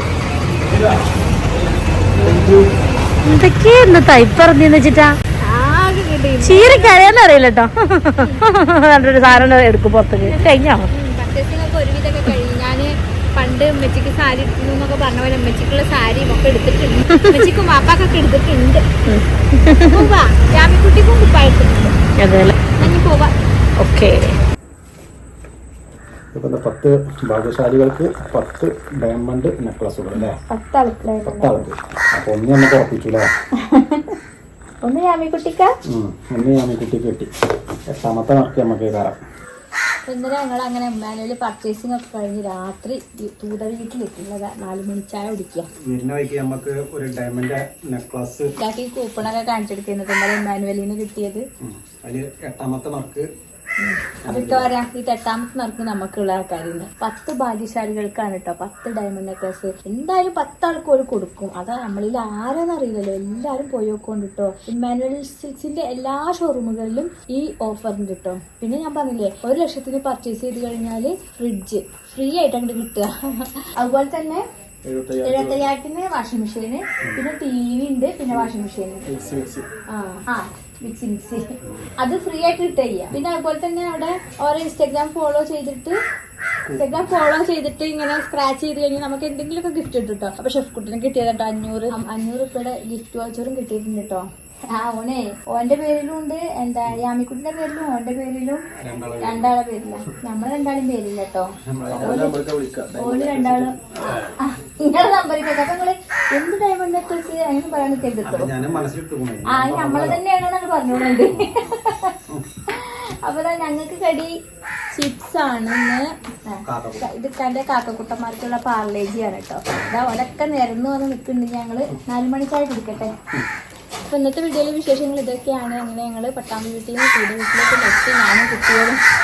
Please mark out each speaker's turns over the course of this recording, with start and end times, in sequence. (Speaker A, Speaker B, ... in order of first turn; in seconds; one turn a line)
Speaker A: 3.2-5.1
Speaker B: 5.4-7.2
Speaker A: 6.4-10.9
Speaker B: 8.2-8.4
Speaker B: 9.2-9.5
Speaker B: 10.2-18.8
Speaker A: 19.1-20.0
Speaker B: 19.8-21.9
Speaker A: 22.2-22.5
Speaker B: 22.8-23.3
Speaker A: 23.8-24.4
Speaker C: 26.3-30.4
Speaker B: 30.1-31.6
Speaker C: 31.2-33.3
Speaker B: 33.6-34.2
Speaker B: 34.8-35.7
Speaker C: 35.9-37.3
Speaker C: 37.9-39.2
Speaker B: 40.0-45.7
Speaker C: 45.8-48.5
Speaker B: 48.6-51.4
Speaker C: 51.6-53.3
Speaker B: 53.8-73.1
Speaker C: 54.2-54.7
Speaker B: 73.8-74.4
Speaker C: 74.8-75.7
Speaker B: 75.2-79.0
Speaker C: 79.1-79.7
Speaker B: 79.9-81.4
Speaker B: 82.0-86.0
Speaker C: 86.7-87.0
Speaker B: 86.7-98.6
Speaker C: 98.8-99.5
Speaker B: 99.2-102.4
Speaker C: 101.7-104.3
Speaker B: 102.9-108.5
Speaker C: 108.2-110.2
Speaker B: 109.5-114.3
Speaker C: 111.3-111.6
Speaker B: 114.9-123.2
Speaker C: 116.6-117.0
Speaker B: 124.1-129.0